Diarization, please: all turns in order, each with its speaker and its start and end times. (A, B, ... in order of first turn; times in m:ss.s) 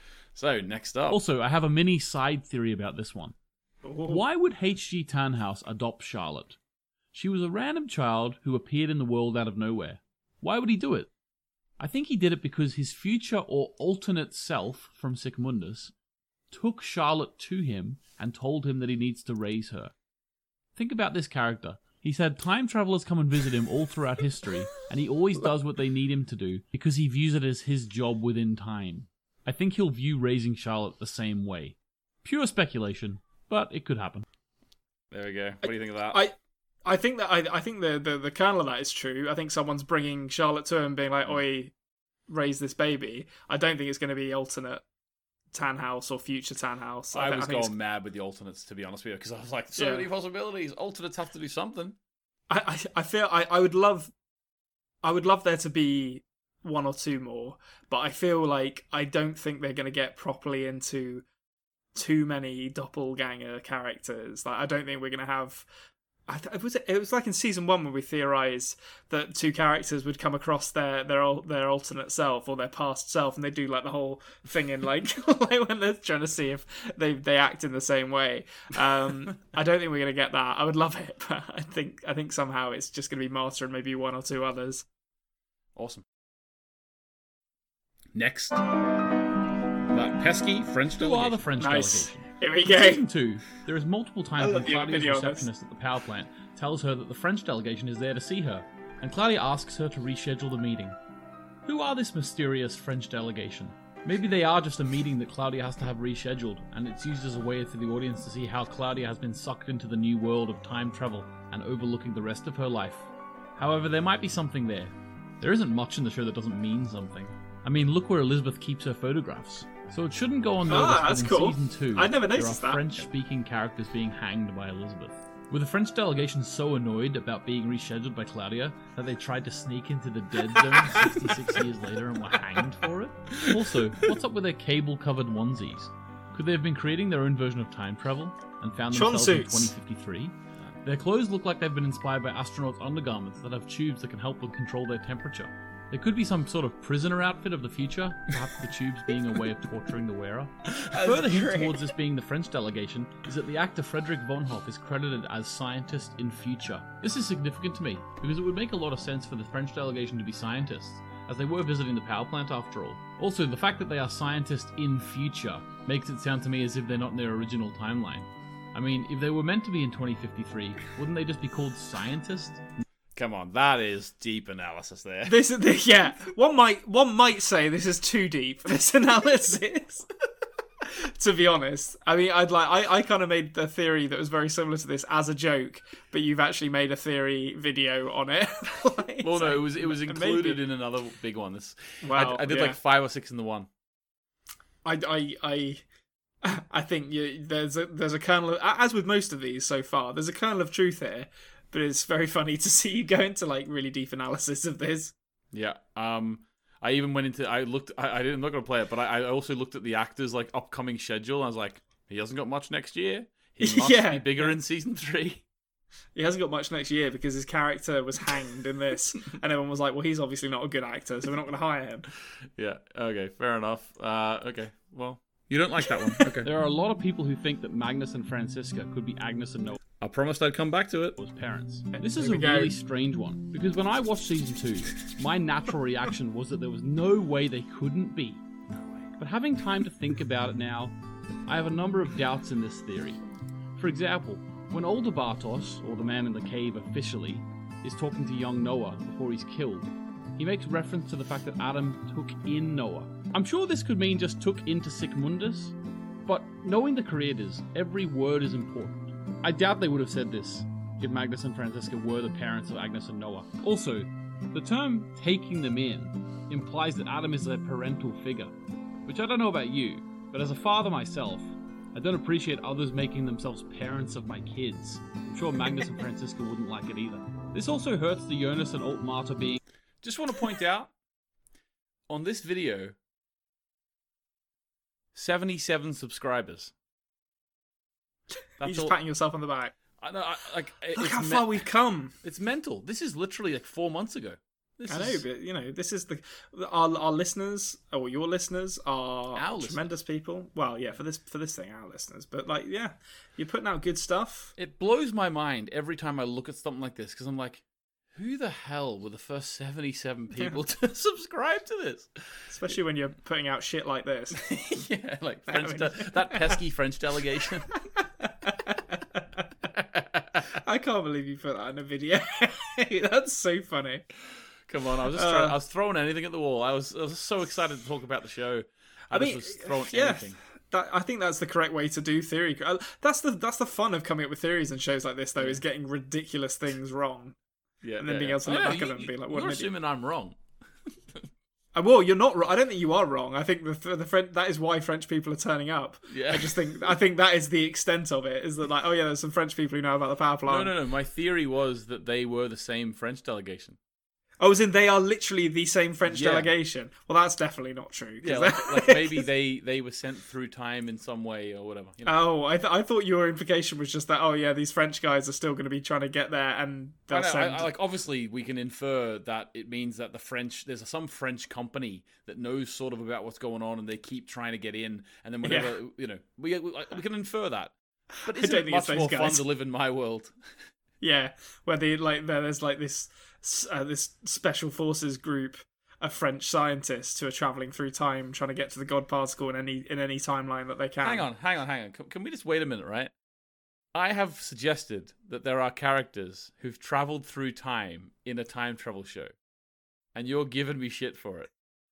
0:00.4-0:01.2 A
0:01.1-0:03.3 B
0:03.8-0:04.2 C
0:04.1-0:06.6 B
0:07.1-0:11.1 B
0:11.8-0:15.9 B
0:16.5-0:19.9 B
0:20.8-0:34.2 B
0:35.1-0:36.2 A
0:35.6-0:41.7 C
0:42.3-0:44.8 C
0:45.5-0:47.7 C
0:47.1-0:52.0 A
0:49.8-0:50.1 C
0:52.5-0:54.1 C
0:55.0-1:01.2 C
1:01.9-1:05.7 C
1:06.3-1:24.9 C
1:25.8-1:26.0 A
1:28.2-1:28.6 B
1:29.9-1:31.4 A
1:30.9-1:41.0 B
1:31.6-1:33.1 C
1:34.4-1:35.5 C
1:41.6-2:52.6 B
2:00.7-2:03.1 C
2:10.5-2:11.3 C
2:18.9-2:19.8 C
2:30.9-2:31.9 C
2:53.2-2:55.4 A
2:55.2-3:00.1 C
3:00.8-3:10.6 C
3:09.2-3:13.7 A
3:12.0-3:12.8 C
3:14.8-3:15.8 C
3:16.4-3:25.1 C
3:25.5-3:35.4 A
3:33.6-3:34.6 C
3:36.2-3:42.1 C
3:42.6-3:46.5 A
3:46.4-3:49.8 B
3:50.0-3:51.2 A
3:51.2-3:58.4 B
3:51.9-3:52.7 C
3:59.2-4:01.0 B
4:01.5-4:03.2 B
4:03.8-4:15.8 B
4:16.3-4:28.5 B
4:29.1-4:39.6 B
4:40.0-4:40.9 A
4:42.1-4:43.0 A
4:45.2-4:46.7 A
4:48.6-4:49.7 C
4:48.6-4:49.0 A
4:50.0-4:51.6 A
4:51.0-4:52.1 C
4:52.2-4:55.2 A
4:54.9-5:04.5 C
4:59.3-4:59.8 A
5:04.6-5:07.6 A
5:08.2-5:12.5 A
5:12.5-5:14.5 C
5:14.4-5:17.7 A
5:15.5-5:16.6 C
5:18.0-5:19.2 C
5:19.8-5:20.5 A
5:20.6-5:24.0 C
5:24.7-5:30.4 A
5:25.1-5:25.6 C
5:29.1-5:37.4 C
5:35.4-5:35.6 A
5:37.8-5:40.4 A
5:38.0-5:39.7 C
5:41.8-5:50.7 C
5:46.1-5:46.9 A
5:50.5-5:53.8 A
5:54.4-5:59.3 C
5:56.1-5:56.5 A
5:58.2-6:02.2 A
6:02.0-6:07.7 C
6:07.1-6:20.4 A
6:15.4-6:15.8 C
6:18.3-6:19.4 C
6:21.0-6:31.3 C
6:31.0-6:33.1 A
6:33.9-6:39.3 A
6:40.2-6:41.5 A